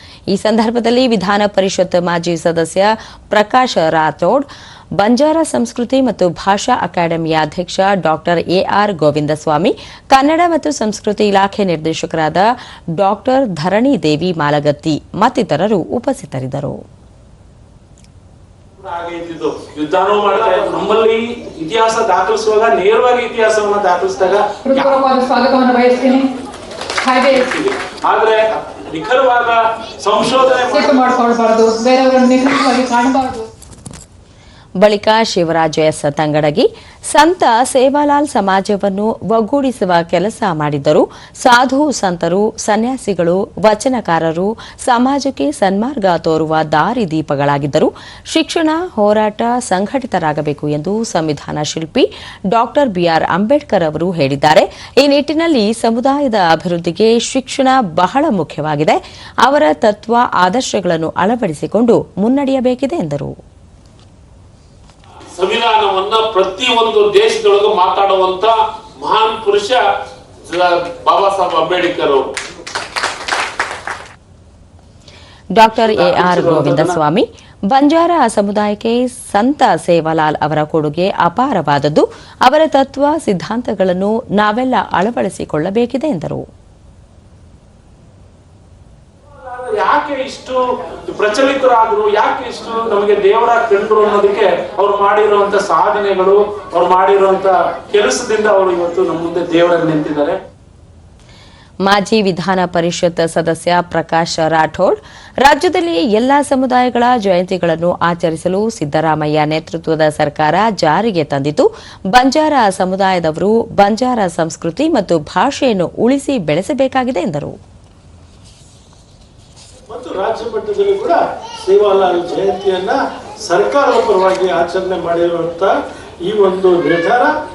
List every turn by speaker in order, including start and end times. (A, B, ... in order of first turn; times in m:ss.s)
0:00.3-0:04.4 A
0:05.0-0:16.8 A
0:18.8-0:25.0 B
0:20.4-0:20.7 C
0:24.6-0:26.3 D
0:27.0-0:27.5 D
0:27.3-0:31.0 B
0:30.6-0:33.5 D
0:34.8-1:03.3 A
1:05.3-1:09.8 C
1:10.4-1:12.3 C
1:15.6-1:26.4 A
1:15.7-1:16.9 B
1:29.4-1:40.4 B
1:41.8-1:57.5 A
1:59.9-2:05.7 E
2:06.2-2:07.3 E